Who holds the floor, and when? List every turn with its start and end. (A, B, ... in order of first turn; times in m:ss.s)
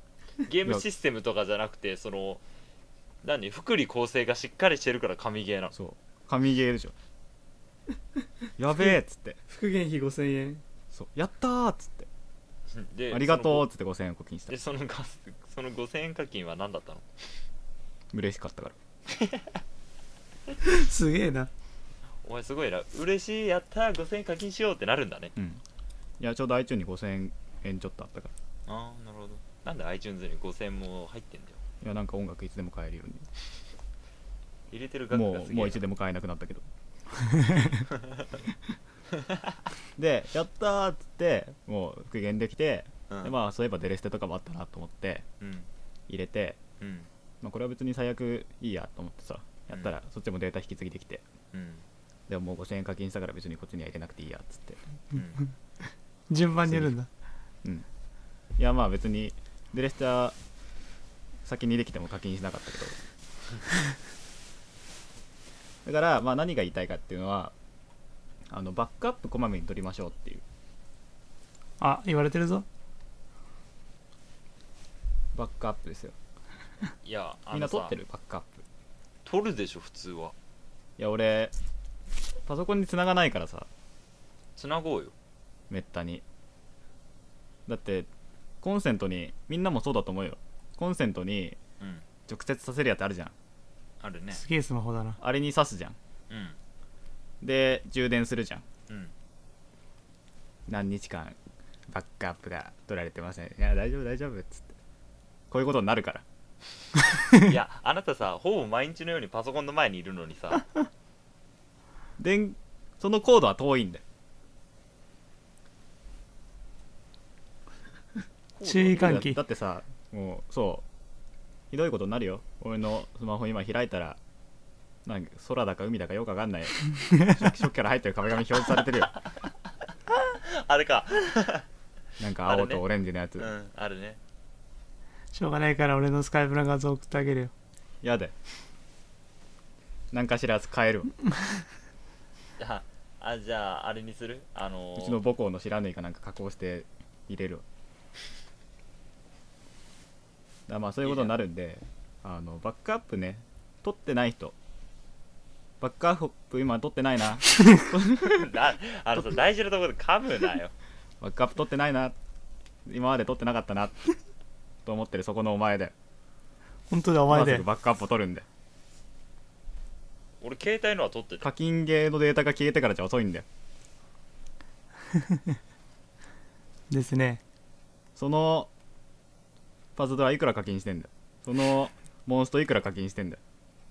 0:00.4-0:02.4 A
0:03.2-0:05.7 A
0:05.7-0:06.9 B
0:08.6-0:09.4 B
0:09.5-0:10.6 C
0:10.9-0:12.1 B
0:12.7-0:13.6 A
0:13.1-0:14.5 B
0:14.5-0:17.1 A
0:18.1-0:18.8 B
0:19.1-0:19.6 A
0:20.6-0:21.5 C
0:22.2-0:25.3 A
0:25.4-0:25.6 B
0:26.2-0:28.3 B
0:28.7-0:31.6 A
0:31.8-0:33.3 B
0:34.7-0:35.8 A
0:35.1-0:36.6 B
0:37.9-0:38.3 A
0:39.1-0:39.6 A
0:40.0-0:45.2 B
0:45.4-0:45.7 A
0:46.1-0:46.6 B
0:46.8-0:47.1 A
0:47.4-0:51.2 B
0:51.5-0:51.8 A
0:52.3-0:54.8 B
0:55.1-0:55.4 A
0:56.3-0:57.1 C
0:56.7-0:56.9 B
0:58.6-1:00.4 B
1:01.4-1:03.0 B
1:05.8-1:07.5 B
1:08.5-1:10.4 B
1:11.8-1:12.6 C
1:15.3-1:16.2 B
1:17.0-1:18.0 A
1:17.5-1:18.6 B
1:19.2-1:20.3 A
1:21.0-1:21.5 B
1:22.4-1:23.7 B
1:24.6-1:25.1 A
1:25.7-1:26.2 B
1:27.7-1:28.1 B
1:28.6-1:31.6 B
1:31.8-1:32.0 A
1:32.3-1:33.3 B
1:34.0-1:34.4 A
1:34.3-1:35.2 C
1:35.2-1:36.0 B
1:36.3-1:36.6 A
1:37.4-1:38.6 B
1:38.9-1:39.1 A
1:40.7-1:41.4 B
1:41.9-1:44.7 B
1:45.5-1:46.2 B
1:47.3-1:50.7 A
1:52.2-1:54.0 B
1:58.6-1:59.3 A
1:58.6-1:59.4 C
1:58.9-2:00.8 B
2:01.7-2:04.2 B
2:05.0-2:09.1 B
2:09.1-2:09.5 A
2:10.3-2:11.6 A
2:12.2-2:13.5 B
2:12.4-2:12.8 A
2:13.4-2:14.2 A
2:15.3-2:17.5 C
2:18.0-2:18.3 B
2:20.1-2:21.1 B
2:22.6-2:25.2 A
2:25.0-2:27.6 B
2:30.7-2:34.6 B
2:31.0-2:31.3 A
2:35.8-2:38.5 B
2:38.3-2:40.7 A
2:41.2-2:42.1 B
2:42.8-2:44.0 B
2:44.8-2:45.9 B
2:46.9-2:47.6 C
2:47.3-2:48.4 B
2:50.4-2:51.5 A
2:51.4-2:53.4 B
2:56.9-2:57.4 C
2:58.2-2:58.7 B
3:00.0-3:03.4 B